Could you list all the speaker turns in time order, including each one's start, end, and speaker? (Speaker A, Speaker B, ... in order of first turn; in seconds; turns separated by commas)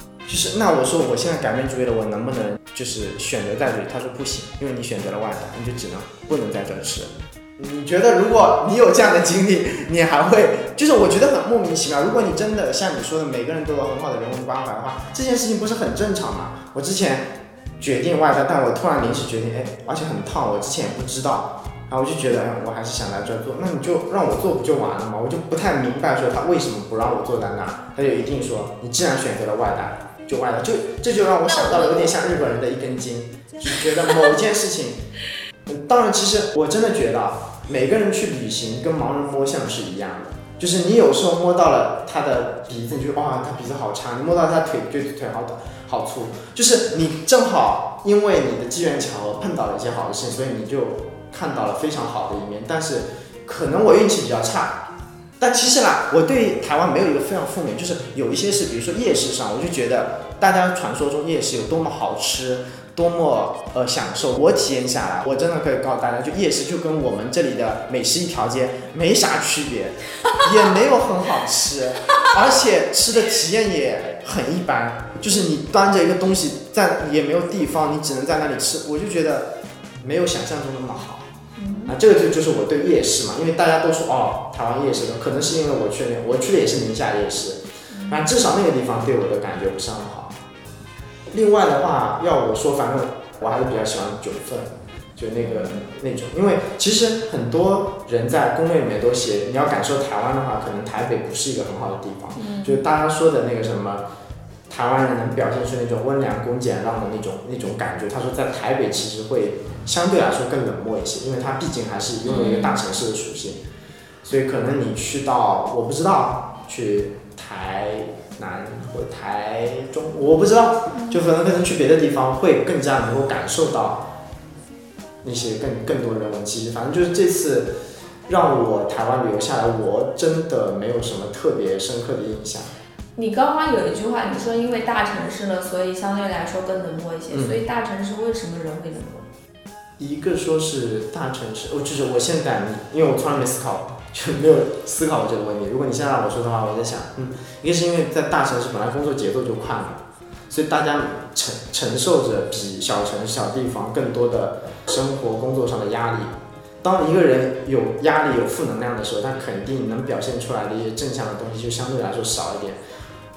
Speaker A: 0.2-17.3, Speaker A: 17.8-35.0, Speaker B: 31.4-32.1, Speaker A: 35.6-54.8, Speaker A: 55.4-81.2, Speaker B: 81.5-82.0, Speaker A: 81.9-90.3, Speaker B: 87.9-88.3, Speaker A: 91.3-104.0, Speaker B: 95.4-95.8, Speaker B: 102.3-102.8, Speaker A: 104.7-113.6, Speaker B: 112.2-112.8, Speaker A: 114.2-124.1, Speaker B: 120.9-121.2, Speaker A: 125.2-127.7, Speaker A: 128.3-132.7, Speaker B: 133.2-139.3, Speaker A: 137.3-137.6, Speaker A: 140.0-162.8